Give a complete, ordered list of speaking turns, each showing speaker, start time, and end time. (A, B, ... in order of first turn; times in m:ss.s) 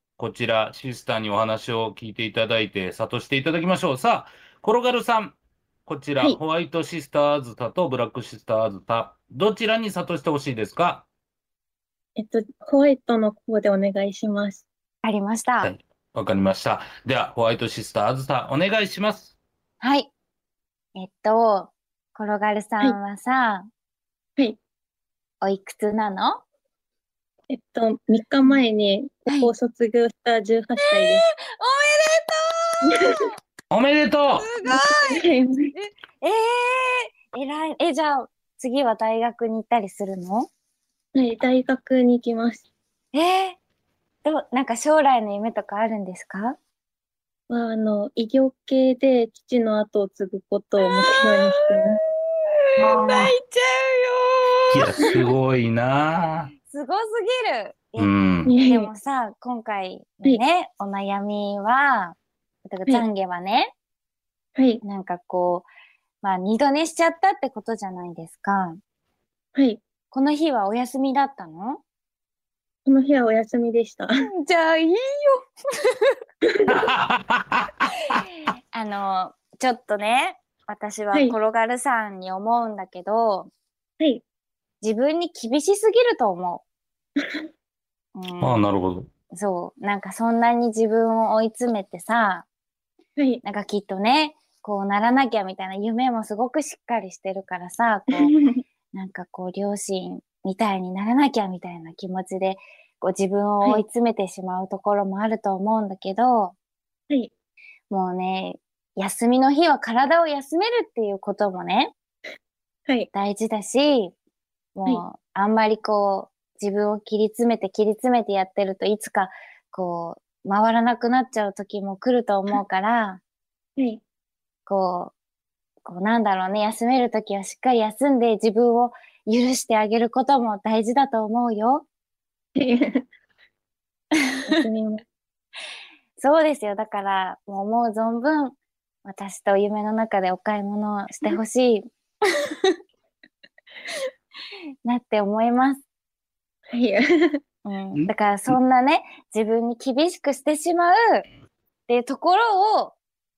0:00.2-0:11.0 A
0:12.2-0:14.6 B
0:15.0-0:15.7 C
0:15.6-0:19.3 A
0:19.8-0:20.1 C
0:21.0-0:23.7 C
0:25.4-0:26.4 C
0:27.5-0:31.2 B
0:29.3-0:29.5 C
0:30.8-0:33.4 C
0:32.8-0:33.2 B
0:33.7-0:34.5 A
0:34.4-0:40.5 C
0:34.7-0:35.7 B
0:41.1-0:42.6 B
0:43.1-0:43.6 C
0:44.2-0:46.6 C
0:47.5-0:52.0 B
0:50.8-0:52.0 C
0:52.8-0:53.3 A
0:52.8-0:55.2 C
0:54.7-0:56.5 A
0:56.7-1:03.7 C
0:58.0-0:58.5 A
0:58.4-0:58.9 B
1:04.6-1:04.8 B
1:04.8-1:05.7 C
1:06.2-1:08.8 C
1:09.5-1:09.8 B
1:10.1-1:11.8 C
1:12.8-1:14.1 B
1:14.2-1:16.1 C
1:16.4-1:16.9 B
1:16.7-1:18.2 A
1:18.0-1:23.5 C
1:24.8-1:26.6 C
1:28.1-1:28.6 C
1:28.4-1:29.1 A
1:29.3-1:32.5 C
1:33.2-1:33.4 B
1:33.4-1:38.3 C
1:38.1-1:38.6 B
1:38.9-1:46.5 C
1:47.9-1:51.9 C
1:53.1-1:54.1 C
1:54.7-2:03.2 C
2:04.7-2:05.1 C
2:05.8-2:11.8 C
2:12.6-2:13.0 B
2:14.4-2:15.0 B
2:16.2-2:22.7 C
2:24.8-2:25.8 C
2:26.7-2:27.4 B
2:27.6-2:31.2 C
2:27.9-2:28.6 A
2:31.9-2:33.0 C